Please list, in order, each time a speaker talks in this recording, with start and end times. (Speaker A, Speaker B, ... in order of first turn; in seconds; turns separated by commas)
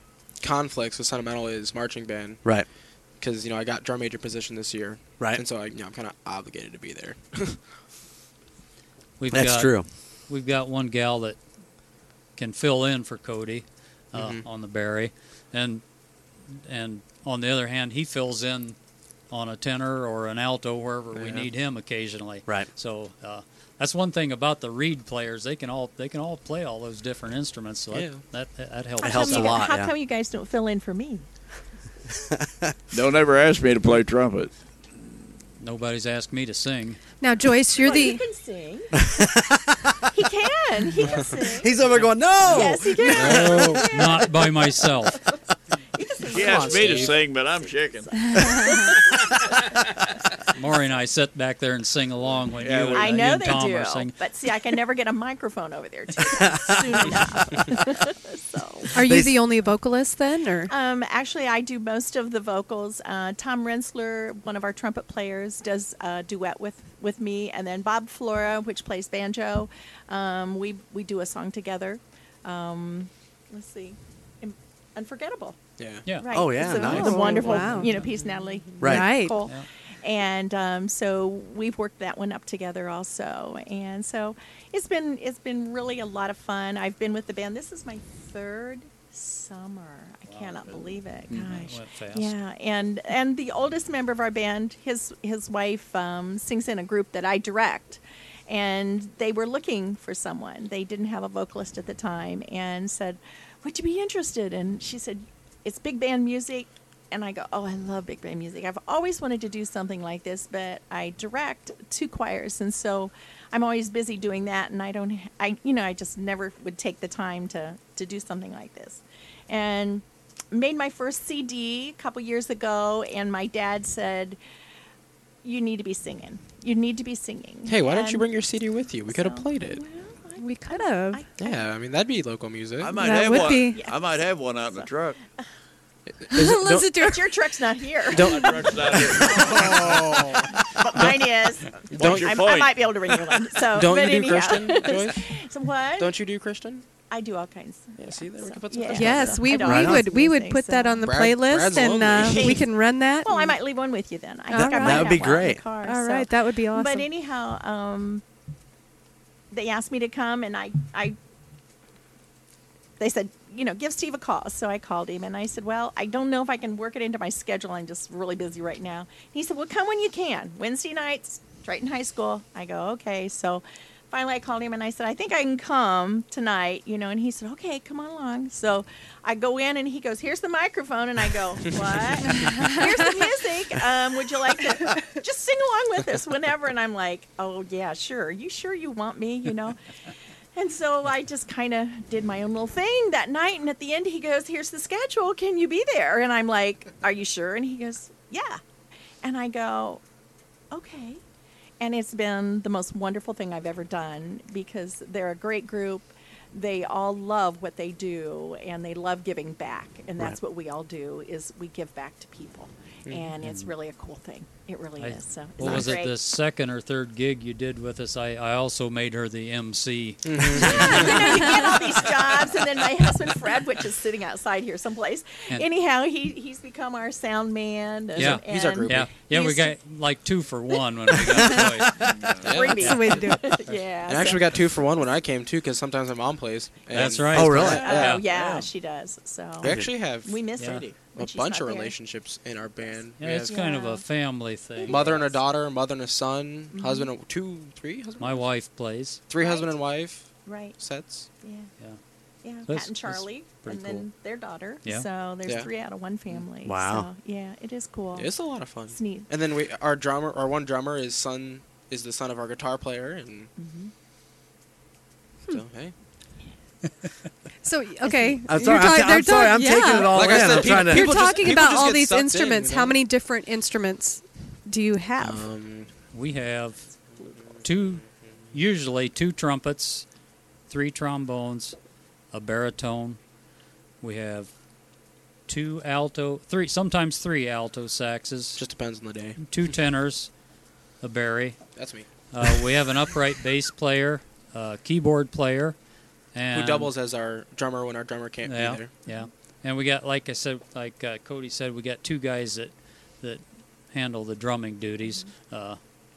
Speaker A: 0.4-2.5, Speaker A: 3.2-7.6, Speaker B: 9.2-11.4, Speaker C: 9.3-9.9, Speaker B: 12.4-15.8, Speaker A: 14.1-14.4, Speaker B: 16.5-18.8, Speaker B: 19.3-29.6, Speaker A: 21.1-21.5, Speaker A: 27.9-28.2, Speaker D: 29.0-31.2, Speaker C: 29.0-29.9, Speaker C: 32.4-32.7, Speaker E: 32.9-34.5, Speaker B: 35.6-37.0, Speaker F: 37.2-38.2, Speaker D: 37.8-39.0, Speaker C: 39.0-40.0, Speaker D: 40.1-41.8, Speaker C: 41.6-43.7, Speaker D: 42.4-44.9, Speaker A: 43.1-43.9, Speaker B: 43.8-45.2, Speaker D: 45.9-49.8, Speaker E: 46.3-48.4, Speaker A: 46.4-47.1, Speaker B: 50.5-54.1, Speaker E: 52.6-53.1, Speaker D: 52.9-59.0, Speaker F: 58.9-60.7, Speaker C: 59.0-59.4, Speaker D: 60.7-75.6, Speaker A: 75.8-76.1, Speaker D: 76.1-124.4, Speaker C: 76.3-77.4, Speaker F: 76.6-78.0, Speaker C: 78.8-79.1, Speaker F: 78.8-79.4, Speaker B: 90.3-92.3, Speaker D: 125.4-128.4, Speaker A: 127.7-129.8, Speaker D: 129.1-131.7, Speaker F: 130.4-131.2, Speaker A: 131.4-133.1, Speaker E: 132.8-135.2, Speaker F: 132.9-133.9, Speaker D: 133.1-134.9, Speaker A: 136.2-136.9, Speaker F: 136.3-137.3, Speaker D: 137.0-146.2, Speaker A: 138.1-140.3, Speaker E: 138.2-139.8, Speaker A: 140.9-141.2, Speaker A: 141.9-142.5, Speaker E: 141.9-143.3, Speaker A: 143.7-145.2, Speaker A: 146.0-146.8, Speaker D: 147.1-151.0, Speaker A: 148.0-149.5, Speaker F: 148.9-153.5, Speaker C: 149.6-150.0, Speaker A: 151.0-152.6, Speaker D: 152.2-152.7, Speaker D: 153.2-158.2, Speaker F: 154.5-157.1, Speaker C: 154.5-155.6, Speaker D: 159.5-161.2, Speaker D: 163.0-189.8, Speaker F: 182.4-182.8, Speaker D: 190.5-198.6, Speaker D: 199.2-200.0, Speaker D: 200.7-201.2, Speaker D: 201.8-216.2, Speaker B: 215.0-221.2, Speaker A: 220.2-221.4, Speaker D: 220.6-229.7, Speaker B: 228.2-232.0, Speaker A: 228.2-229.1, Speaker E: 232.1-232.4, Speaker A: 232.4-233.0, Speaker D: 232.4-234.5, Speaker F: 232.8-233.4, Speaker A: 234.1-238.2, Speaker B: 236.9-238.2, Speaker C: 237.3-237.9, Speaker D: 237.7-241.9, Speaker E: 238.2-238.7, Speaker A: 239.6-243.5, Speaker C: 239.6-239.9, Speaker B: 240.6-240.8, Speaker B: 243.2-245.3, Speaker D: 243.5-244.0, Speaker D: 244.8-245.4, Speaker A: 244.9-248.5, Speaker D: 246.7-247.1, Speaker B: 248.2-249.2, Speaker A: 249.3-251.3, Speaker D: 249.4-249.8, Speaker D: 250.4-250.8, Speaker D: 251.4-251.7, Speaker D: 252.4-259.3, Speaker B: 252.7-254.1, Speaker C: 256.6-257.1, Speaker A: 258.1-263.5, Speaker D: 263.6-263.9, Speaker A: 265.5-265.9, Speaker F: 267.6-275.5, Speaker C: 268.5-271.2, Speaker A: 270.1-273.0, Speaker A: 275.2-275.9, Speaker B: 276.1-276.9, Speaker B: 277.6-280.1, Speaker B: 280.7-281.8, Speaker B: 282.3-283.2, Speaker B: 284.0-284.5, Speaker B: 285.5-288.6, Speaker A: 288.6-289.4, Speaker B: 289.4-290.3, Speaker B: 291.0-291.6, Speaker A: 291.7-292.1, Speaker B: 292.3-295.8, Speaker B: 296.3-296.9, Speaker A: 296.5-298.9, Speaker B: 298.4-305.8